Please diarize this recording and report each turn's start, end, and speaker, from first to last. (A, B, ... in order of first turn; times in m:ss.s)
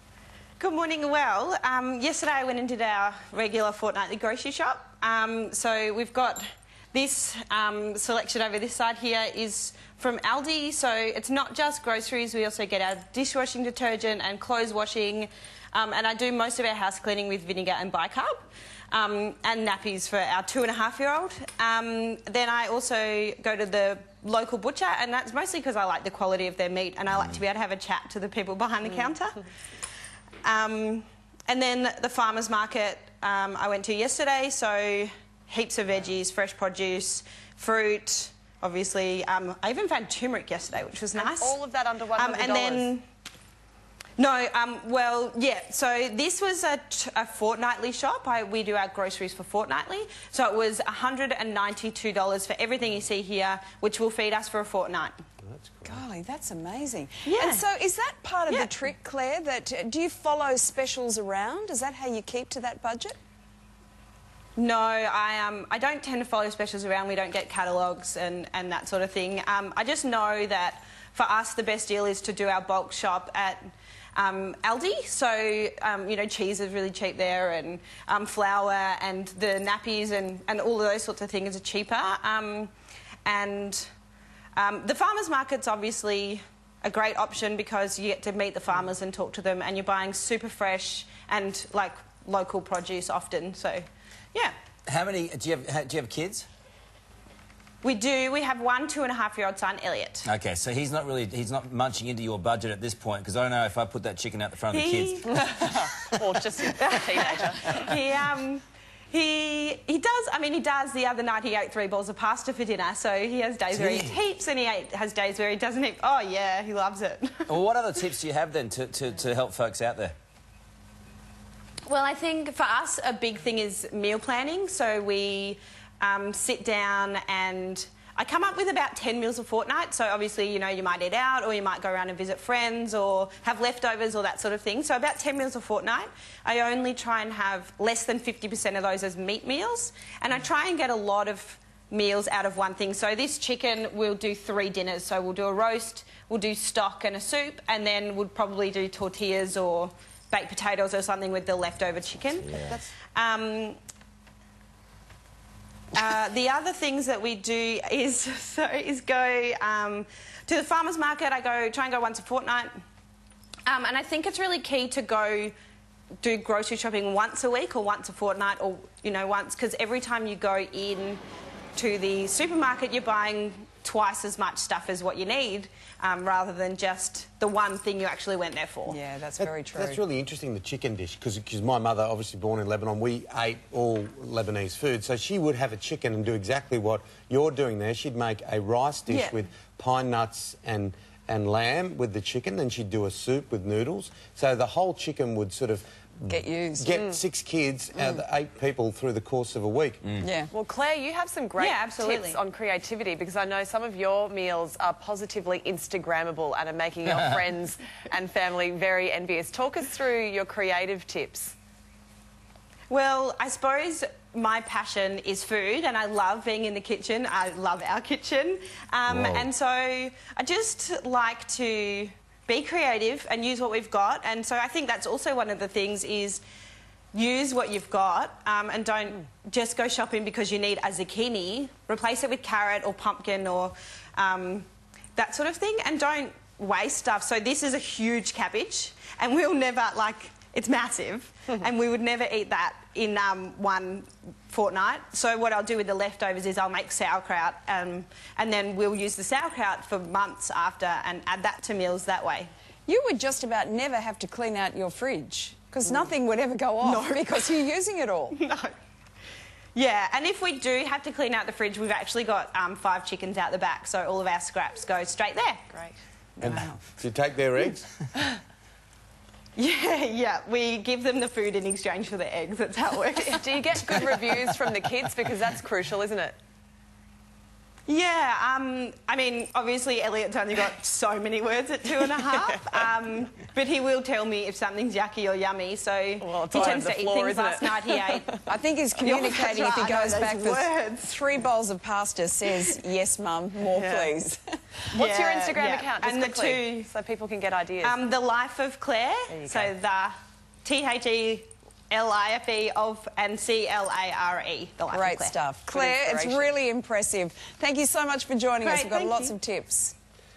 0:00.6-0:29.4 A
0:30.4-0:41.6 A
0:41.1-0:42.9 B
0:42.2-0:43.0 A
0:44.2-0:55.2 A
0:55.4-0:56.0 C
0:55.8-1:03.2 D
0:57.2-0:57.6 A
0:58.5-0:58.7 A
1:04.6-1:22.7 A
1:23.2-1:23.9 A
1:24.6-1:34.5 A
1:34.8-1:36.5 E
1:37.8-1:40.3 A
1:40.2-1:45.7 E
1:44.7-1:45.5 A
1:45.3-1:47.8 B
1:46.8-1:57.5 A
1:53.7-1:54.2 E
1:57.5-2:00.1 E
2:01.9-2:33.8 A
2:32.2-2:32.8 E
2:35.9-2:42.7 A
2:43.7-2:45.5 A
2:46.2-2:51.2 A
2:51.8-2:59.0 A
2:58.9-3:00.0 D
2:59.4-3:20.0 C
3:09.1-3:09.4 A
3:16.3-3:16.9 D
3:18.0-3:18.2 D
3:20.2-3:20.5 D
3:20.5-3:31.5 B
3:21.6-3:22.4 A
3:32.9-3:46.4 A
3:39.1-3:39.5 E
3:47.1-4:12.5 A
4:12.8-4:18.4 D
4:16.8-4:17.6 A
4:18.3-4:18.7 A
4:19.7-4:25.6 A
4:26.4-4:27.9 C
4:26.4-4:26.8 D
4:29.6-4:34.4 A
4:33.2-4:36.4 B
4:37.9-4:48.4 A
4:42.3-4:42.8 B
4:46.2-4:48.4 B
4:48.5-4:54.8 D
4:49.0-4:51.2 A
4:53.7-4:54.1 B
4:54.9-4:56.9 A
4:54.9-4:58.0 B
4:57.8-5:05.3 A
4:59.3-4:59.7 B
5:04.9-5:09.9 D
5:05.7-5:06.5 B
5:08.6-5:09.4 A